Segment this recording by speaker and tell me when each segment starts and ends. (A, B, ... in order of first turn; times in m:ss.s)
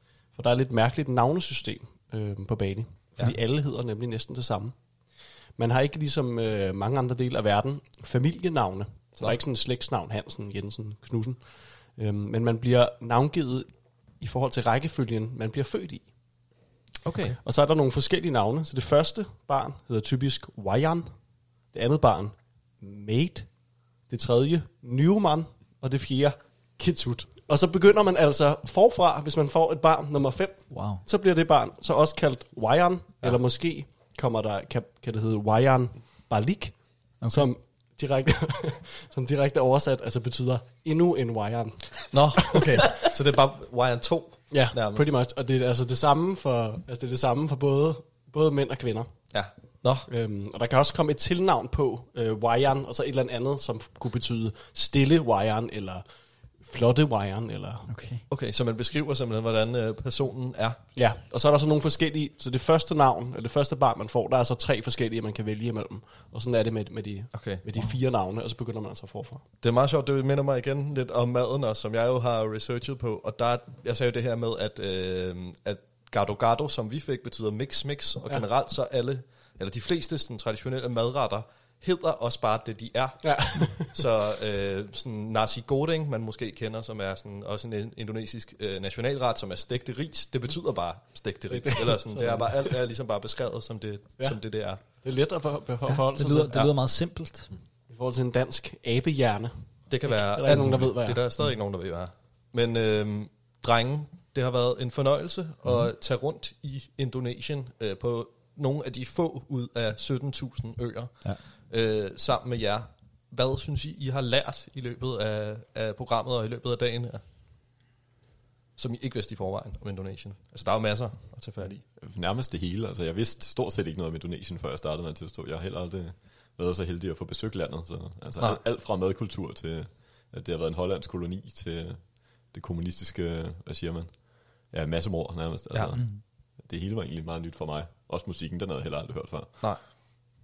0:00.3-0:16.1 A
0:17.0-0:17.4 B
0:17.4-0:43.0 A
0:30.7-0:31.0 C
0:37.2-0:37.5 C
0:42.1-0:45.1 B
0:44.5-0:56.0 A
0:49.3-0:50.1 B
0:56.6-0:57.9 A
0:57.9-0:58.2 C
0:58.3-1:00.8 B
1:00.9-1:09.4 A
1:07.3-1:07.6 B
1:09.6-1:34.8 B
1:23.2-1:24.0 A
1:31.5-1:32.9 A
1:34.2-1:36.6 A
1:35.9-1:37.5 C
1:37.9-1:41.3 A
1:39.9-1:57.2 B
1:58.8-2:01.8 B
2:02.0-2:19.9 D
2:15.7-2:16.0 B
2:16.0-2:16.2 C